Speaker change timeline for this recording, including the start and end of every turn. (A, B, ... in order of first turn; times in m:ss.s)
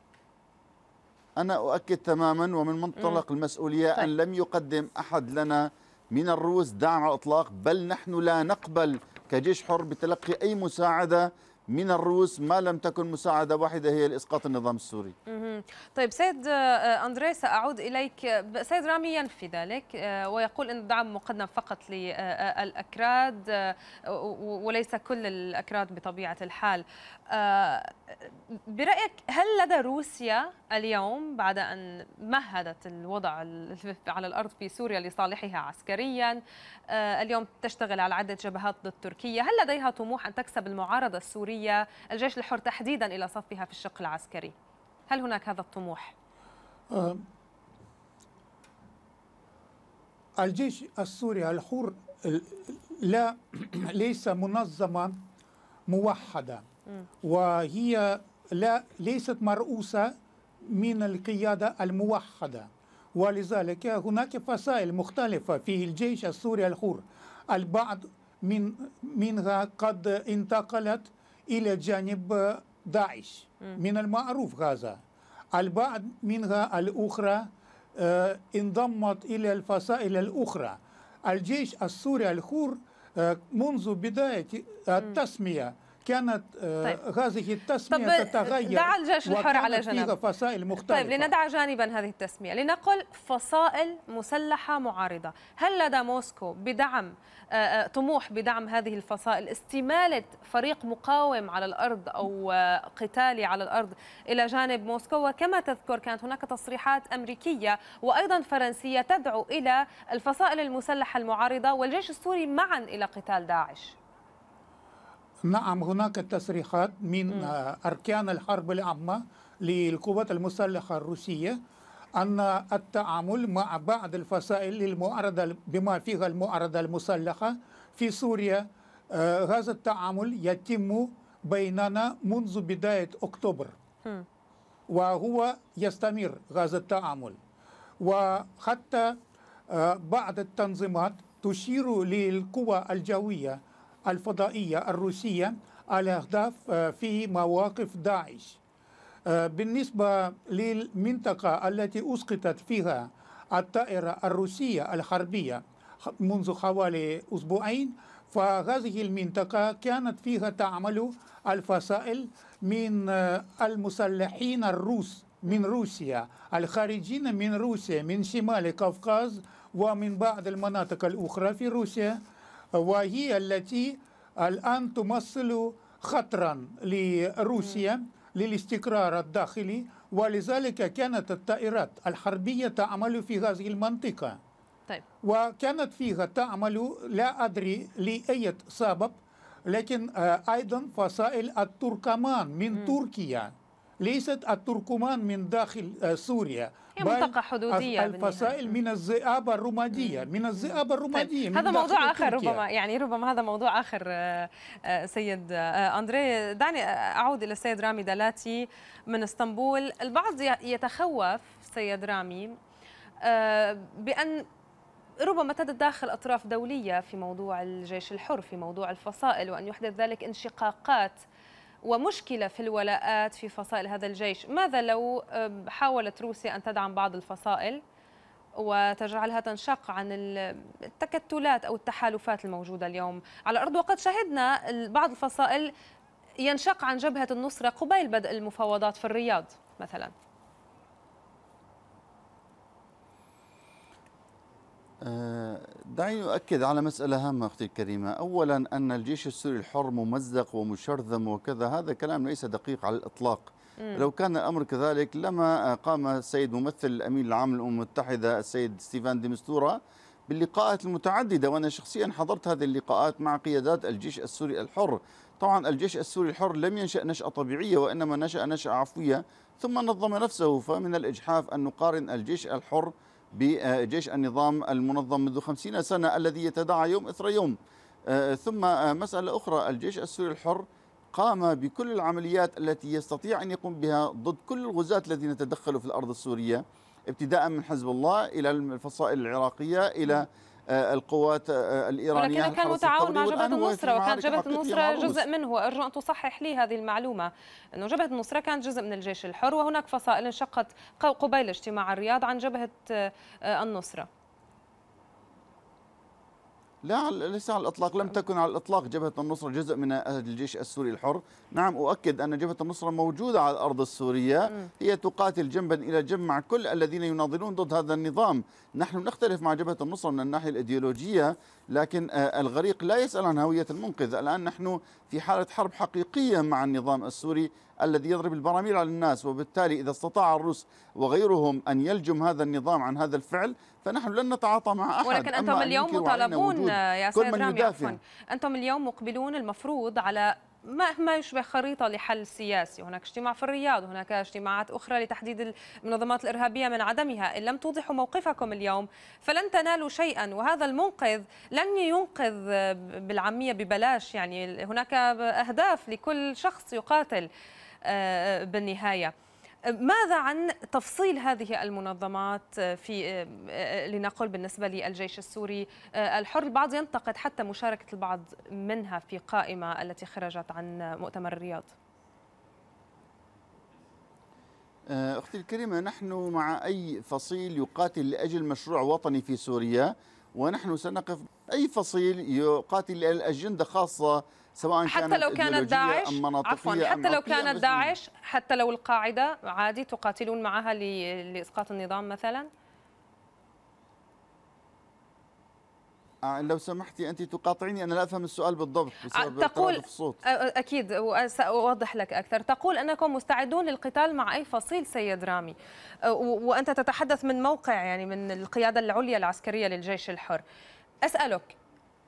0:01.4-0:15.1 A
0:15.3-0:44.5 B
0:45.1-0:46.1 B
0:46.9-0:47.2 C
0:50.4-0:55.2 C
0:55.9-0:56.6 C
0:57.2-1:15.0 C
1:15.5-1:31.3 C
1:27.9-1:30.2 B
1:30.8-1:54.0 B
1:55.4-2:01.6 C
2:02.2-2:13.7 C
2:14.9-2:17.4 C
2:18.0-2:28.6 C
2:29.2-2:52.2 C
2:52.7-3:04.4 C
3:05.2-3:22.6 C
3:17.0-3:18.7 B
3:19.9-3:32.6 B
3:33.2-3:34.5 B
3:35.2-3:41.2 B
3:41.8-3:47.8 B
3:48.6-3:55.7 B
3:56.4-4:00.1 B
4:05.0-4:37.6 A
4:13.8-4:14.0 B
4:38.1-4:55.2 A
4:52.1-5:04.1 B
5:06.8-5:38.0 A
5:35.0-5:57.3 B
5:57.8-5:59.1 B
5:59.6-6:11.7 B
6:14.9-6:27.9 A
6:24.8-6:32.5 B
6:36.2-6:40.2 A
6:39.1-6:50.4 B
6:51.0-6:51.5 B